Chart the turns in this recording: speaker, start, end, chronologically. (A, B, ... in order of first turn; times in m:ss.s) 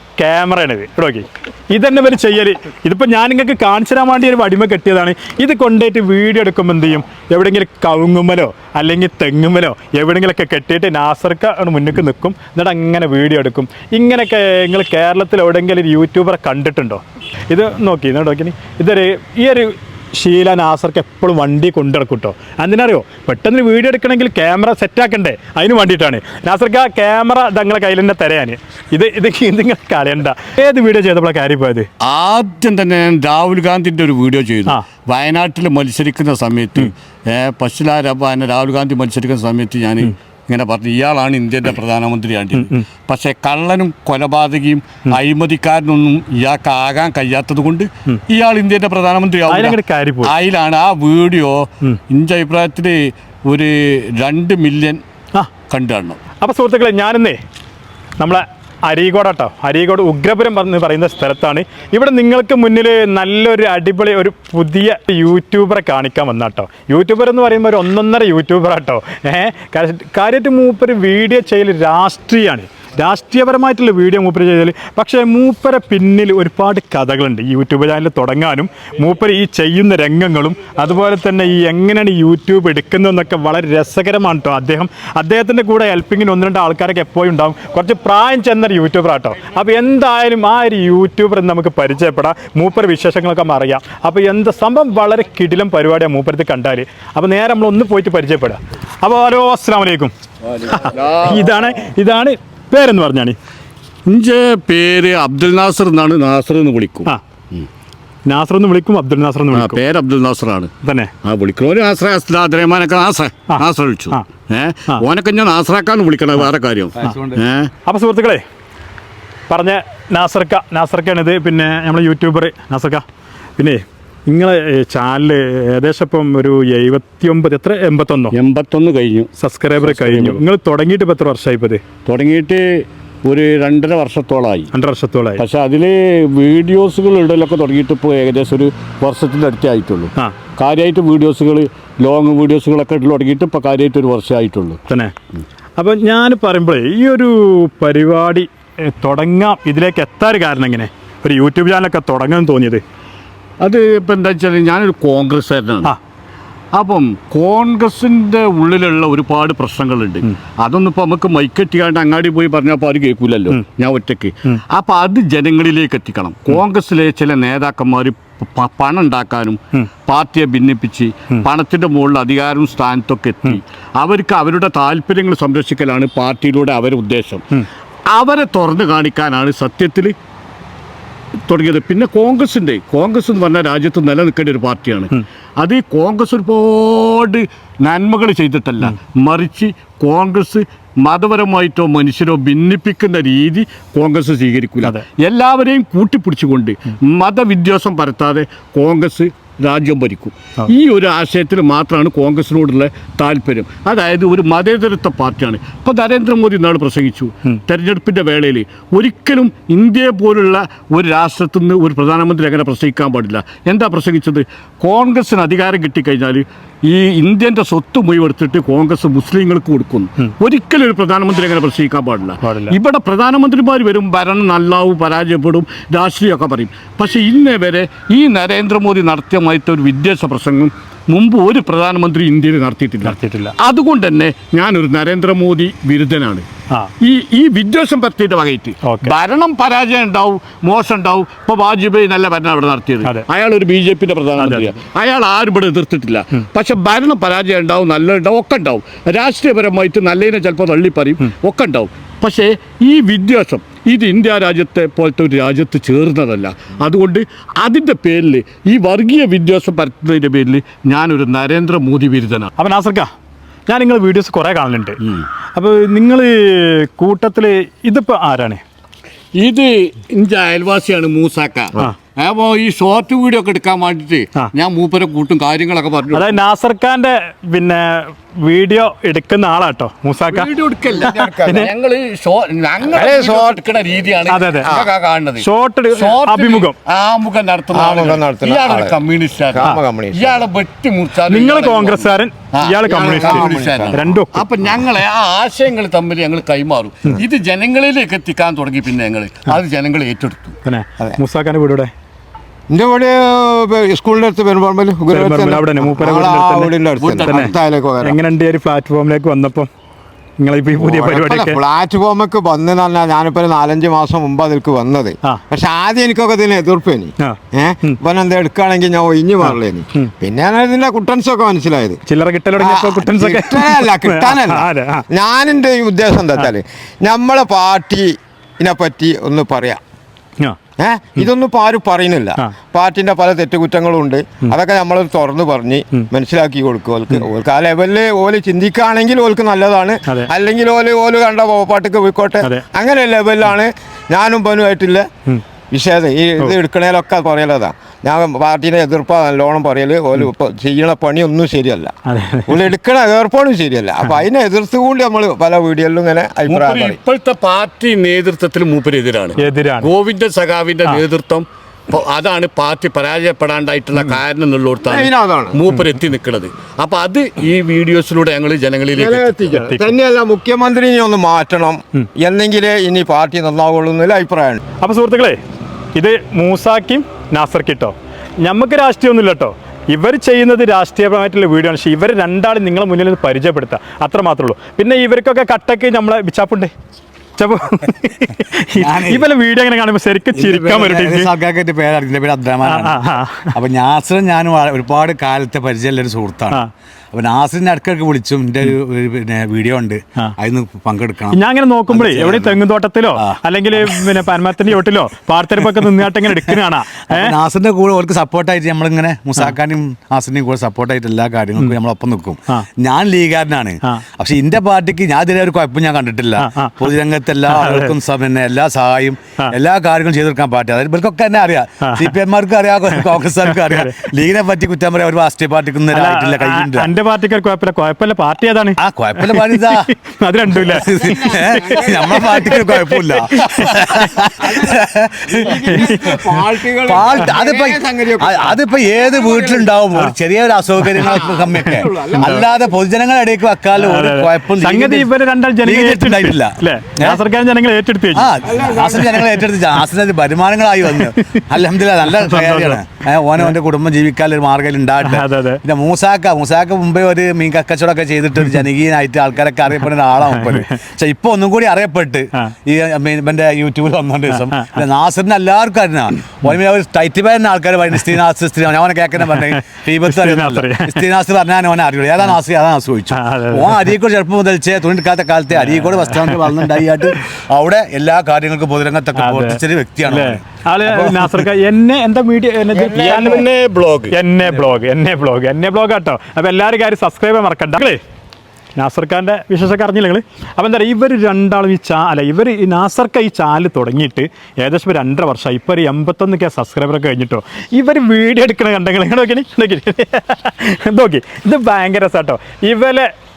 0:00.2-0:31.9 A
0:32.0-0:55.0 B
0:42.6-0:42.8 A
0:49.5-0:50.3 A
0:55.7-0:56.2 B
0:56.4-0:57.4 A
0:58.2-1:40.1 A
1:40.5-1:41.6 B
1:40.7-1:43.4 A
1:44.1-1:47.6 B
1:48.2-1:49.8 A
1:49.5-1:50.7 B
1:50.8-1:51.1 A
1:51.2-1:57.7 B
1:53.5-1:54.2 A
1:56.9-1:57.4 C
1:57.8-1:58.4 A
1:59.5-2:03.0 A
2:03.6-2:08.3 A
2:08.3-2:10.4 B
2:09.4-2:11.8 A
2:12.0-2:14.7 B
2:14.7-2:15.4 A
2:15.4-2:24.8 B
2:24.9-2:25.1 A
2:25.8-2:32.8 A
2:33.6-2:35.9 B
2:36.7-2:57.4 B
2:58.1-3:00.1 B
3:01.4-3:56.5 B
3:42.4-3:42.8 A
3:53.0-3:53.5 A
3:57.0-4:22.5 B
3:58.8-3:59.1 A
4:04.4-4:04.7 A
4:22.6-4:23.1 A
4:23.7-4:25.0 A
4:25.5-4:28.6 A
4:29.4-4:36.4 B
4:36.1-4:40.5 A
4:40.3-5:00.6 B
4:41.0-4:41.7 D
4:41.0-4:41.7 A
4:42.9-4:43.6 D
4:44.3-4:44.7 A
4:44.6-4:44.9 D
4:45.4-4:46.8 A
4:47.7-4:49.0 D
4:49.5-4:50.4 D
4:51.3-4:54.4 A
4:52.8-4:54.0 D
5:00.6-5:01.9 A
5:02.7-5:08.2 D
5:05.1-5:06.7 A
5:07.0-5:07.5 B
5:07.3-5:09.7 A
5:10.4-5:11.6 A
5:10.7-5:22.0 D
5:17.2-5:18.0 A
5:19.4-5:20.1 A
5:22.0-5:25.0 A
5:22.6-5:29.8 D
5:30.8-5:45.1 D
5:45.7-5:51.9 D
5:52.1-5:52.5 A
5:52.5-5:57.0 D
5:56.5-6:09.4 B
5:59.4-5:59.9 A
6:04.9-6:05.6 D
6:08.9-6:14.6 D
6:09.6-6:09.9 A
6:14.8-6:15.4 A
6:15.9-6:26.7 A
6:27.4-6:31.3 A
6:28.7-6:29.3 C
6:30.3-6:36.6 C
6:32.6-6:33.5 A
6:37.1-6:42.6 C
6:41.3-6:47.3 A
6:43.2-6:44.2 C
6:45.8-6:46.6 C
6:47.1-7:06.9 C
6:56.4-6:56.8 A
6:57.5-6:57.9 A
7:01.8-7:02.1 A
7:02.9-7:04.1 A
7:05.9-7:13.8 A
7:08.8-7:09.9 C
7:10.5-7:16.1 C
7:10.8-7:12.8 D
7:13.6-7:19.7 D
7:15.7-7:16.0 A
7:16.8-7:25.1 C
7:21.0-7:22.6 D
7:23.8-7:28.3 A
7:25.6-7:27.2 C
7:28.1-8:01.4 C
7:28.4-7:29.4 D
7:30.8-7:31.4 A
7:32.1-7:32.8 A
7:35.0-7:35.6 A
7:40.3-7:40.8 A
7:44.3-7:44.8 A
7:50.0-7:51.0 A
7:53.1-7:53.8 A
7:55.6-7:56.4 A
7:59.2-8:03.4 A
8:02.7-8:03.4 D
8:02.9-8:04.1 B
8:04.1-8:08.0 A
8:08.8-8:23.1 A